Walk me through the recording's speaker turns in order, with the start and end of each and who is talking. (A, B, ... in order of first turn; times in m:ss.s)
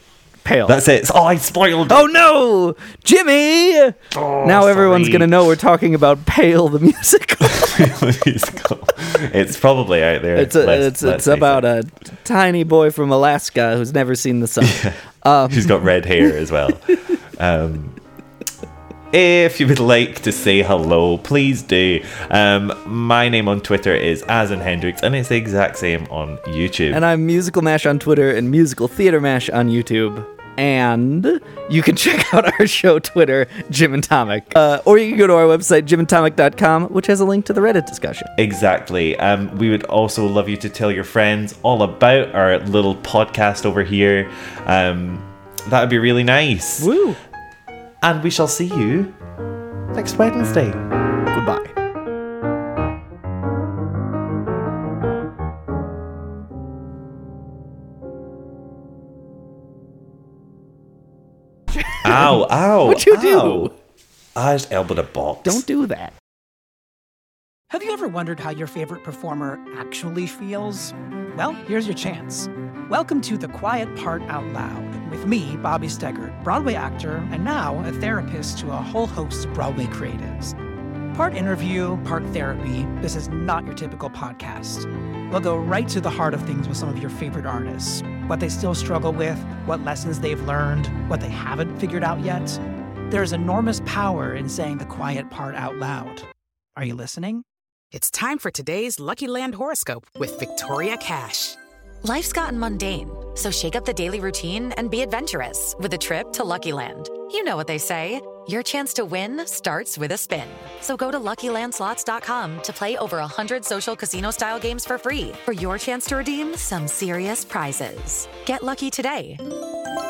0:00.4-0:00.8 A
0:00.6-0:02.1 B
0:01.9-0:07.9 A
0:04.1-0:05.4 B
0:07.4-0:11.6 B
0:10.3-0:15.8 A
0:14.6-0:18.0 B
0:19.1-0:27.0 B
0:26.9-0:38.3 A
0:38.4-0:46.9 B
0:46.8-0:47.2 A
0:48.0-0:49.1 B
0:49.9-0:50.8 B
0:51.3-0:51.7 A
1:01.9-1:03.7 A
1:02.0-1:03.7 B
1:04.3-1:05.6 B
1:05.4-1:06.1 A
1:07.7-1:20.5 C
1:21.1-1:37.4 C
1:37.9-1:41.5 D
1:42.0-1:59.4 E